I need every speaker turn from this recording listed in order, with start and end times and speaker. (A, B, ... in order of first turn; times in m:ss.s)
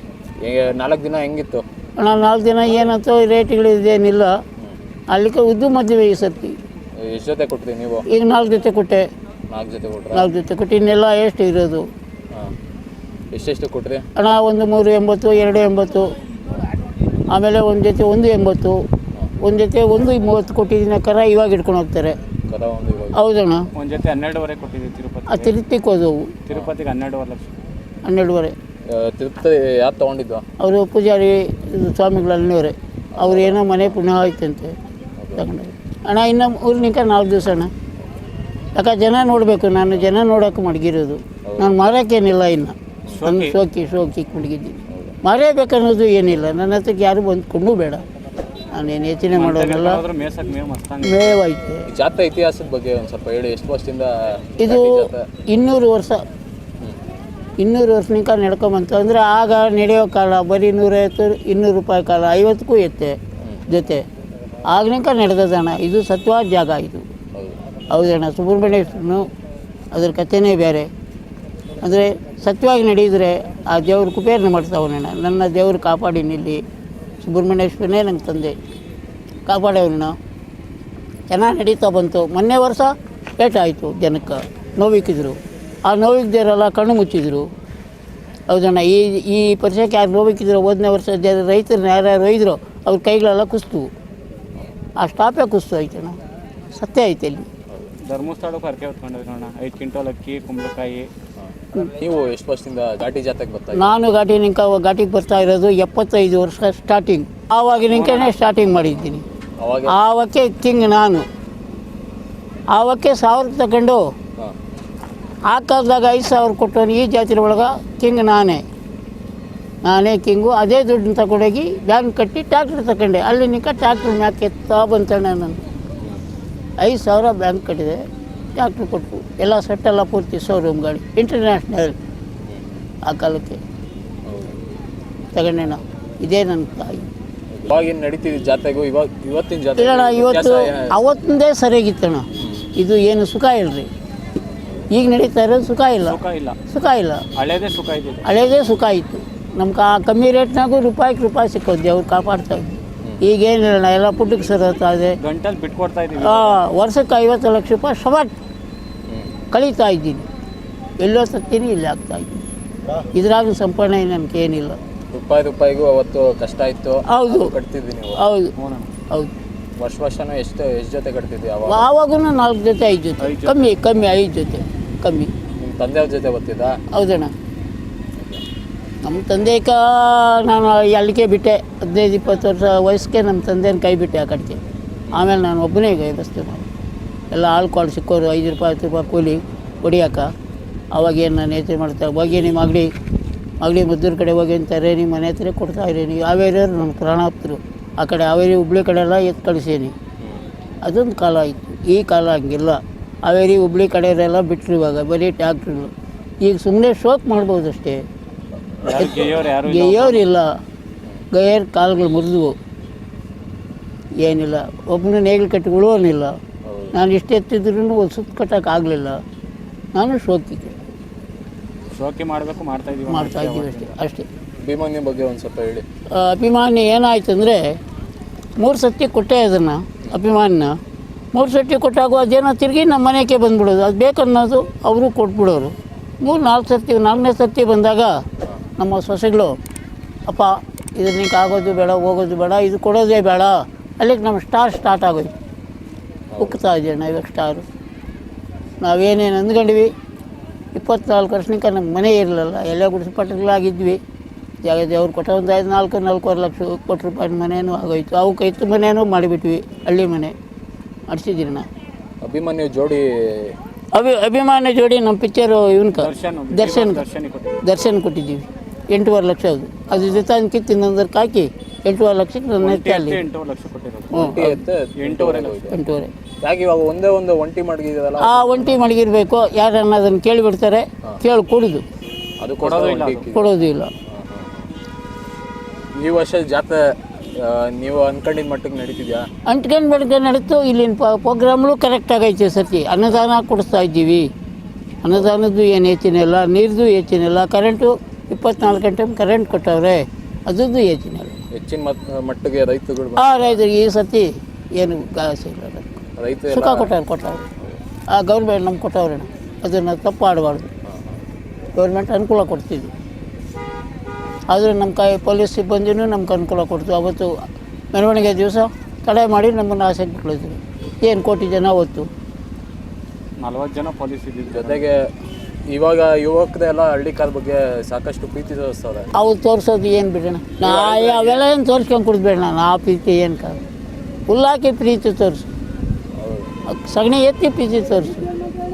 0:00.4-0:01.7 A
0:02.0-0:04.4 B
0:04.6-0:04.8 A
0:05.1-0:06.6 B
0:07.0-0:08.1 A
0:08.1-0:09.1 B
0:09.5-0:10.3 A
0:10.1-0:11.8 B
0:13.3-0:14.1 A
0:14.2-0:16.2 B
0:17.3-0:18.8 B
0:19.4-0:22.2 B
0:22.5-0:23.2 A
0:23.1-0:23.7 B
0:23.8-0:25.6 C
0:25.3-0:26.4 B
0:26.5-0:27.5 C
0:28.0-0:28.6 B
0:28.9-0:30.5 A
0:30.6-0:34.8 B
0:33.1-0:34.0 A
0:35.2-0:35.4 A
0:35.4-0:37.7 B
0:38.8-0:48.0 B
0:41.4-0:41.7 A
0:43.1-0:43.6 C
0:44.9-0:45.2 A
0:48.7-0:50.0 B
0:49.3-0:51.4 C
0:51.0-0:51.9 B
0:51.9-0:55.3 A
0:54.6-0:56.2 B
0:57.6-1:03.2 B
1:03.7-1:04.0 B
1:04.7-1:07.0 B
1:07.3-1:07.6 A
1:07.9-1:09.3 B
1:09.9-1:10.9 B
1:11.8-1:16.6 B
1:17.2-1:18.6 B
1:19.5-1:20.2 B
1:21.3-1:27.5 B
1:28.5-1:33.9 B
1:35.0-1:36.2 B
1:36.7-1:37.5 B
1:37.7-1:37.9 A
1:38.0-1:41.1 C
1:41.4-1:44.0 A
1:43.8-1:49.2 B
1:47.9-1:48.4 C
1:49.6-1:50.0 A
1:49.9-1:51.2 B
1:52.7-1:54.0 B
1:55.5-1:58.6 B
1:59.9-2:05.6 B
2:06.8-2:12.0 B
2:13.1-2:13.6 B
2:14.3-2:14.6 A
2:15.3-2:17.1 B
2:17.5-2:21.0 A
2:19.8-2:23.9 B
2:22.4-2:22.7 A
2:24.9-2:27.3 B
2:26.0-2:26.6 C
2:27.4-2:28.3 C
2:28.2-2:35.2 B
2:35.2-2:36.6 C
2:36.2-2:38.3 B
2:39.1-2:39.4 A
2:39.5-2:40.3 B
2:41.0-2:42.4 B
2:43.1-2:44.8 B
2:45.1-2:48.2 A
2:47.1-2:47.6 B
2:48.2-2:48.5 B
2:48.6-2:48.9 C
2:49.8-2:51.9 A
2:51.7-2:55.3 B
2:53.2-2:53.7 C
2:55.6-2:56.8 A
2:56.9-2:57.3 B
2:59.0-3:04.6 B
3:05.1-3:05.4 A
3:05.1-3:06.7 B
3:07.3-3:10.3 B
3:10.9-3:12.9 B
3:13.6-3:20.0 B
3:20.8-3:28.0 B
3:28.8-3:30.3 C
3:28.9-3:30.6 B
3:31.3-3:32.6 B
3:34.2-3:36.4 B
3:36.6-3:37.0 A
3:36.9-3:39.2 B
3:40.0-3:40.8 B
3:41.9-3:44.0 C
3:43.1-3:44.3 B
3:44.6-3:45.8 A
3:46.1-3:47.8 B
3:48.6-3:50.8 B
3:51.3-3:58.2 B
3:58.8-3:59.6 B
4:00.3-4:05.3 B
4:06.3-4:06.6 A
4:06.4-4:07.7 B
4:08.8-4:09.9 B
4:10.7-4:14.0 B
4:14.6-4:20.4 B
4:21.1-4:21.7 B
4:22.2-4:23.6 A
4:23.9-4:27.0 B
4:26.0-4:27.6 C
4:27.6-4:33.2 B
4:29.9-4:30.3 A
4:32.6-4:34.4 C
4:34.1-4:34.6 B
4:34.1-4:35.8 A
4:35.0-4:35.7 C
4:35.7-4:36.1 B
4:36.4-4:38.8 A
4:38.2-4:41.8 B
4:42.4-4:43.5 A
4:42.6-4:43.3 C
4:43.3-4:43.9 B
4:44.1-4:44.7 A
4:45.9-4:49.3 A
4:49.5-4:54.3 B
4:55.0-5:01.4 B
5:01.5-5:03.6 A
5:03.2-5:07.5 B
5:06.2-5:06.9 A
5:08.1-5:10.7 B
5:10.8-5:11.2 A
5:11.8-5:12.9 B
5:14.5-5:17.3 B
5:17.9-5:22.1 B
5:23.4-5:24.9 C
5:24.5-5:25.1 A
5:25.7-5:29.1 A
5:29.1-5:33.6 B
5:30.6-5:31.5 A
5:34.3-5:35.5 B
5:36.2-5:36.6 A
5:36.7-5:38.3 B